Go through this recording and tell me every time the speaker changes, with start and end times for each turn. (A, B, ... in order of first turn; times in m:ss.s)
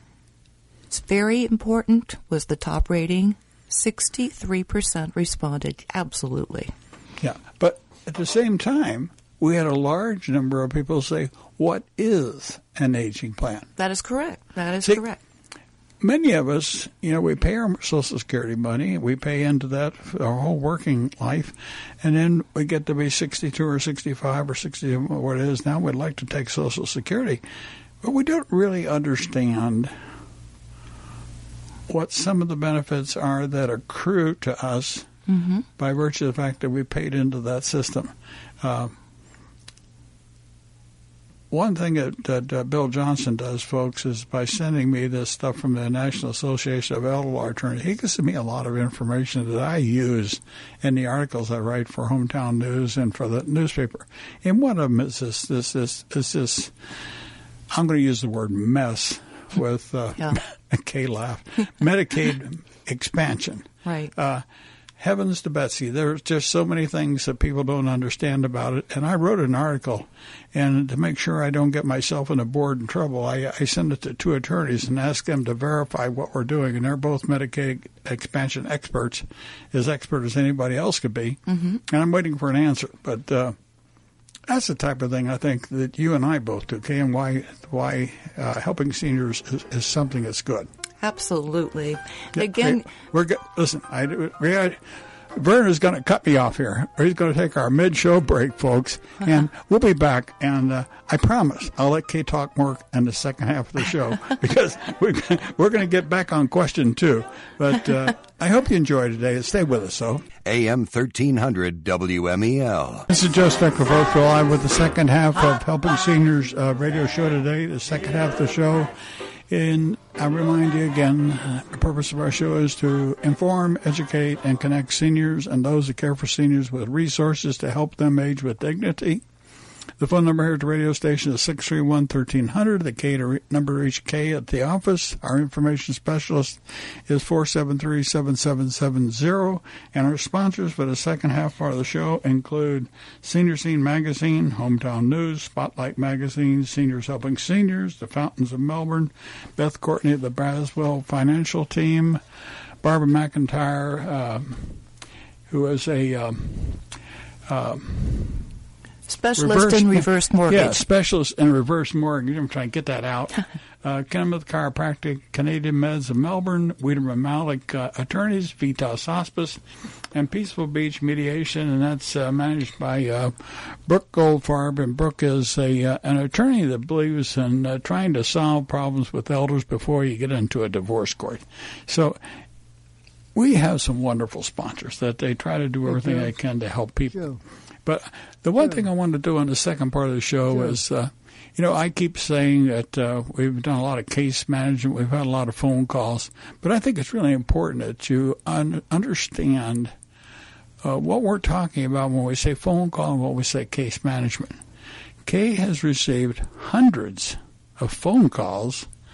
0:00.9-0:06.7 A
0:07.2-0:13.7 B
0:13.8-0:15.2 A
0:16.0-0:27.4 B
0:28.0-0:30.0 B
0:31.9-0:35.1 B
0:35.3-0:35.6 A
0:35.8-0:39.0 B
0:41.5-0:56.7 B
0:57.7-1:04.4 B
1:03.8-1:04.1 A
1:05.0-1:23.6 B
1:21.5-1:21.8 A
1:24.5-1:30.7 B
1:31.0-1:32.9 A
1:32.4-1:34.8 B
1:35.3-1:50.3 B
1:50.4-1:53.1 C
1:53.1-1:58.9 B
1:59.5-2:09.2 B
2:10.0-2:32.2 B
2:32.8-2:34.8 B
2:35.5-2:36.9 B
2:37.5-2:38.5 B
2:39.1-2:40.8 A
2:39.4-2:49.6 B
2:50.1-3:02.2 B
3:03.4-3:19.9 B
3:20.8-3:24.6 B
3:25.2-3:28.9 B